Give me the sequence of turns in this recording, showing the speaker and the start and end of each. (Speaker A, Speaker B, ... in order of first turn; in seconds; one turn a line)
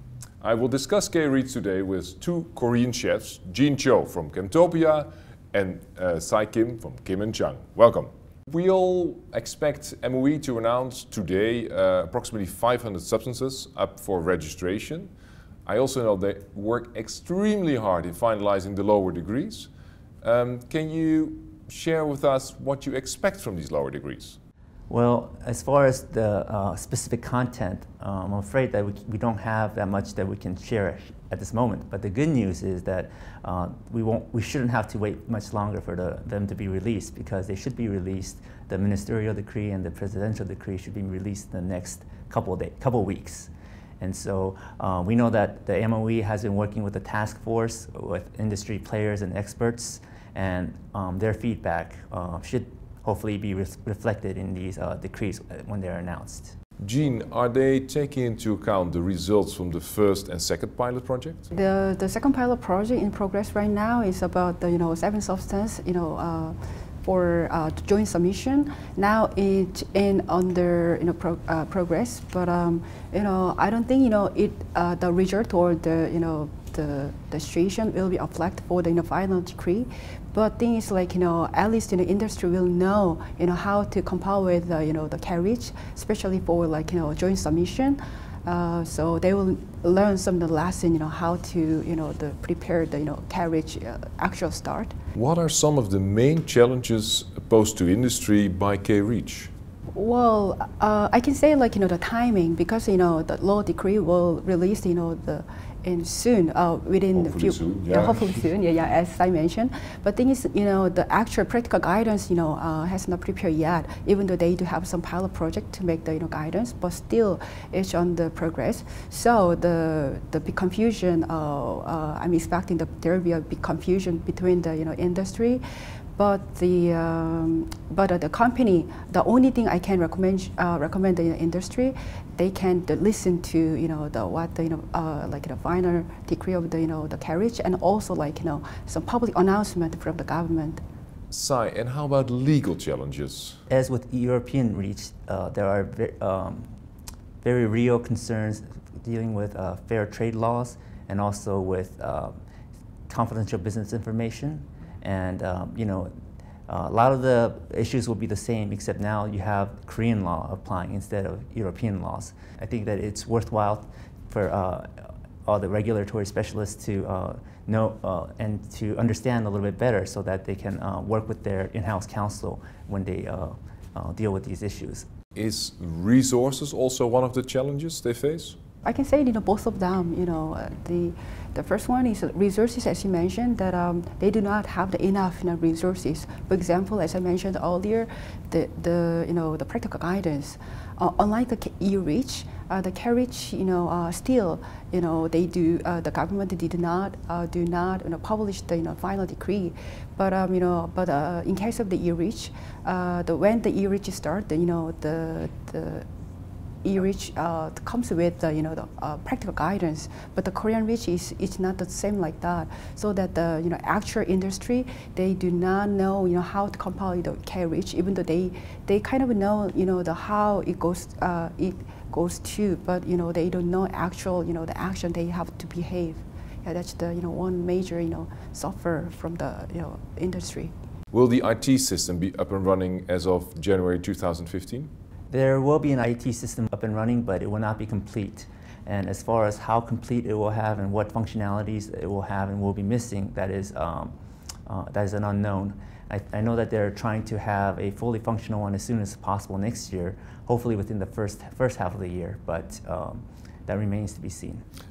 Speaker A: 0.4-15.1
Speaker A: 15.7-19.7
Speaker A: 20.2-24.4
Speaker B: 24.9-56.5
Speaker A: 56.8-61.5
Speaker C: 61.5-94.9
Speaker A: 95.1-99.5
Speaker C: 99.9-125.6
Speaker A: 107.1-108.4
Speaker C: 126.2-140.8
Speaker A: 141.3-143.6
Speaker B: 143.7-146.7
Speaker B: 147.4-152.3
Speaker B: 153.1-156.1
Speaker B: 156.7-175.1
Speaker A: 175.3-178.6
Speaker C: 178.8-206.1
Speaker C: 206.8-230.7
Speaker A: 231.1-234.9
Speaker B: 235.3-244.1
Speaker B: 244.7-254.6